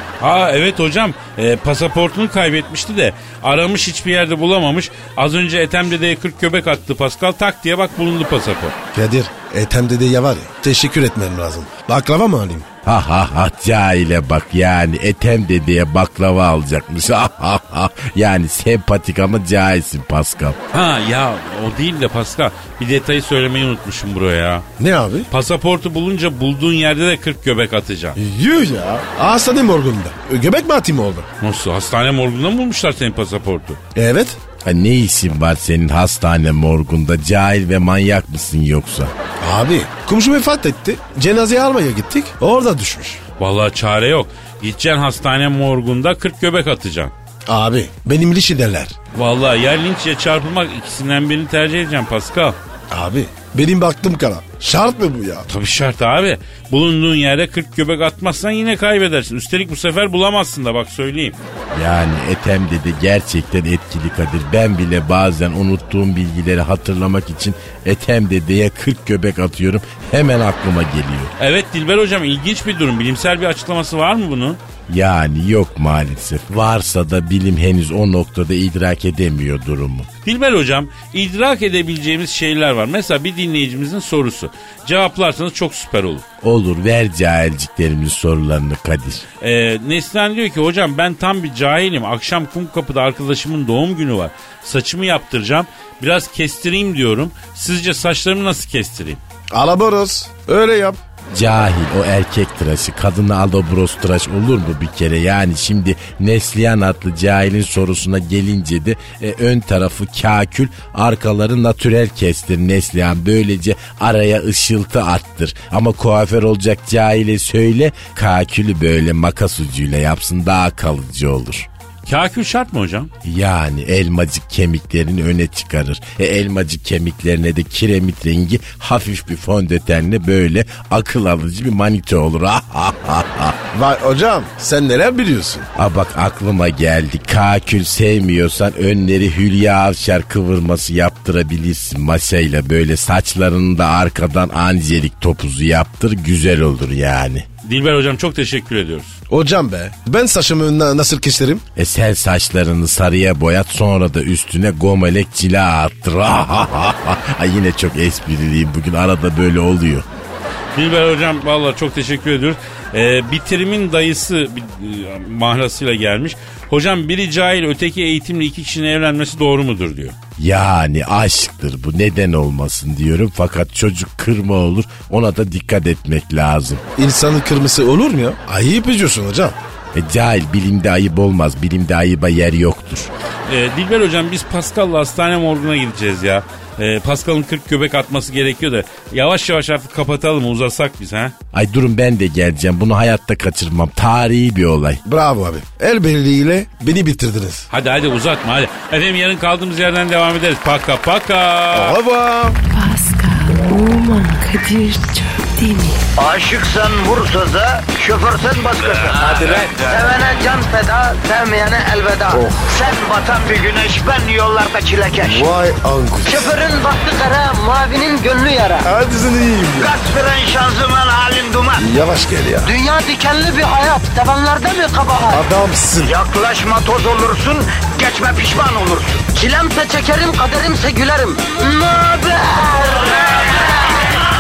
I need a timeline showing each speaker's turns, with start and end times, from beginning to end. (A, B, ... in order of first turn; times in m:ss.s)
0:00.2-0:08.8 A
0:08.9-0:12.7 B
0:12.8-0:20.6 C
0:20.7-0:24.7 A
0:24.8-0:25.3 B
0:25.3-0:28.2 A
0:28.2-0:31.3 B
0:31.4-0:33.8 A
0:34.0-0:34.4 B
0:34.6-0:39.1 C
0:39.4-0:43.2 B
0:43.4-0:47.1 A
0:47.5-0:49.0 B
0:49.1-0:52.6 A
0:52.9-0:55.5 B
0:55.5-1:01.4 A
1:01.7-1:11.3 C
1:11.4-1:14.6 A
1:14.9-1:20.1 C
1:20.2-1:26.2 A
1:26.4-1:29.2 C
1:29.4-1:39.2 A
1:39.5-1:41.0 B
1:41.3-2:01.7 C
2:02.1-2:03.1 A
2:03.2-2:13.6 C
2:13.7-2:15.7 B
2:15.8-2:27.4 C
2:27.6-2:29.2 A
2:29.3-2:31.6 B
2:31.8-2:40.1 C
2:40.7-2:50.2 A
2:50.4-2:56.8 C
2:57.0-2:59.6 B
2:59.9-3:03.1 C
3:03.5-3:11.3 A
3:11.5-3:15.0 C
3:15.0-3:17.7 B
3:17.7-3:22.0 A
3:21.7-3:22.6 B
3:22.6-3:26.0 D
3:26.2-3:35.5 E
3:29.2-3:29.8 B
3:32.3-3:32.7 B
3:35.2-3:36.5 B
3:36.2-3:38.9 E
3:38.8-3:40.0 B
3:39.8-3:41.9 E
3:41.8-3:42.7 B
3:42.6-3:45.4 E
3:45.3-3:46.1 B
3:46.0-3:53.9 E